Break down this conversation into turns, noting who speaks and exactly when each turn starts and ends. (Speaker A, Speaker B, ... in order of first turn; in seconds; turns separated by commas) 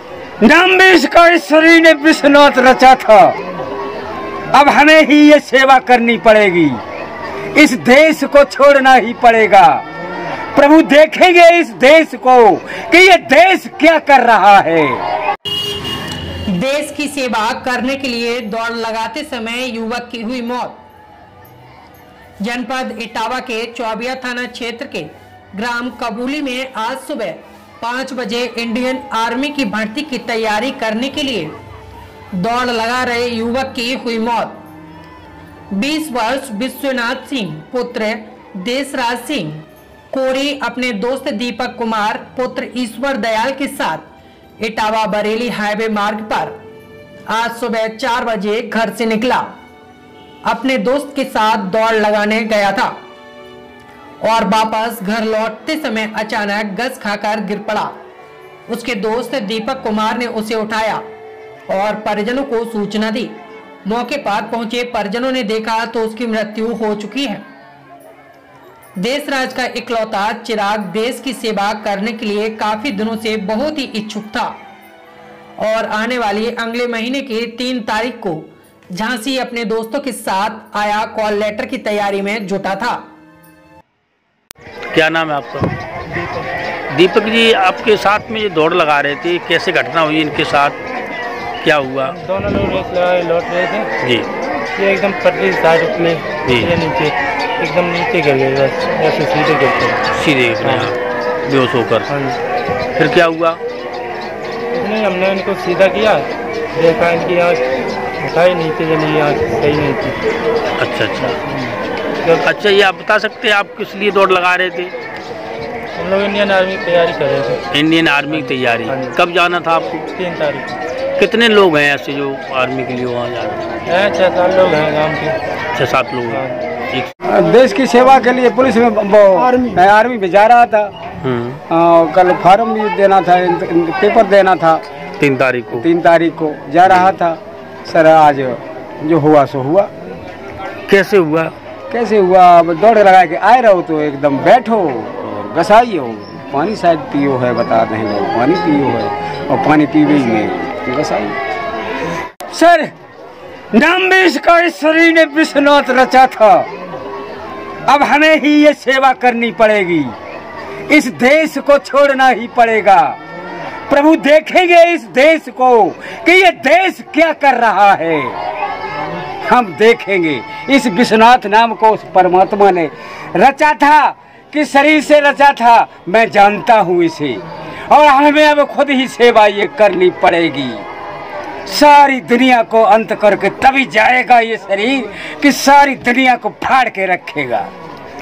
Speaker A: 0.4-3.4, Speaker A: 4.5-6.8, Speaker A: 7.5-9.8, Speaker A: 10.6-15.0, Speaker B: 16.5-20.8, Speaker B: 22.4-31.6, Speaker B: 32.4-34.6, Speaker B: 35.7-44.0, Speaker B: 44.6-46.5, Speaker B: 47.3-49.5, Speaker B: 50.5-52.9, Speaker B: 54.2-57.9, Speaker B: 58.7-61.0, Speaker B: 61.7-67.4, Speaker B: 69.0-74.5, Speaker B: 75.6-83.0, Speaker C: 84.9-85.7, Speaker D: 86.1-86.5, Speaker C: 86.9-90.8, Speaker C: 91.6-92.2, Speaker D: 92.2-93.9, Speaker C: 94.0-94.3, Speaker D: 94.8-100.0, Speaker C: 96.4-96.7, Speaker C: 100.1-102.1, Speaker D: 100.6-100.9, Speaker D: 102.1-102.4, Speaker C: 103.0-103.6, Speaker D: 104.7-107.6, Speaker D: 108.2-110.2, Speaker C: 110.8-111.4, Speaker D: 111.2-112.4, Speaker C: 112.3-114.9, Speaker D: 116.0-117.6, Speaker C: 117.7-120.0, Speaker D: 118.3-119.2, Speaker D: 120.1-120.8, Speaker C: 121.2-123.7, Speaker D: 123.9-125.4, Speaker C: 125.7-127.1, Speaker D: 126.3-126.6, Speaker A: 127.2-130.9, Speaker C: 131.2-131.6, Speaker A: 131.7-134.8, Speaker C: 135.2-135.9, Speaker A: 135.7-139.9, Speaker C: 136.8-137.1, Speaker C: 140.9-141.5, Speaker A: 141.9-151.4, Speaker A: 152.5-152.9, Speaker A: 153.7-156.7, Speaker A: 157.9-160.1, Speaker A: 160.9-163.2, Speaker A: 163.9-168.4, Speaker A: 169.4-180.8, Speaker A: 181.7-187.7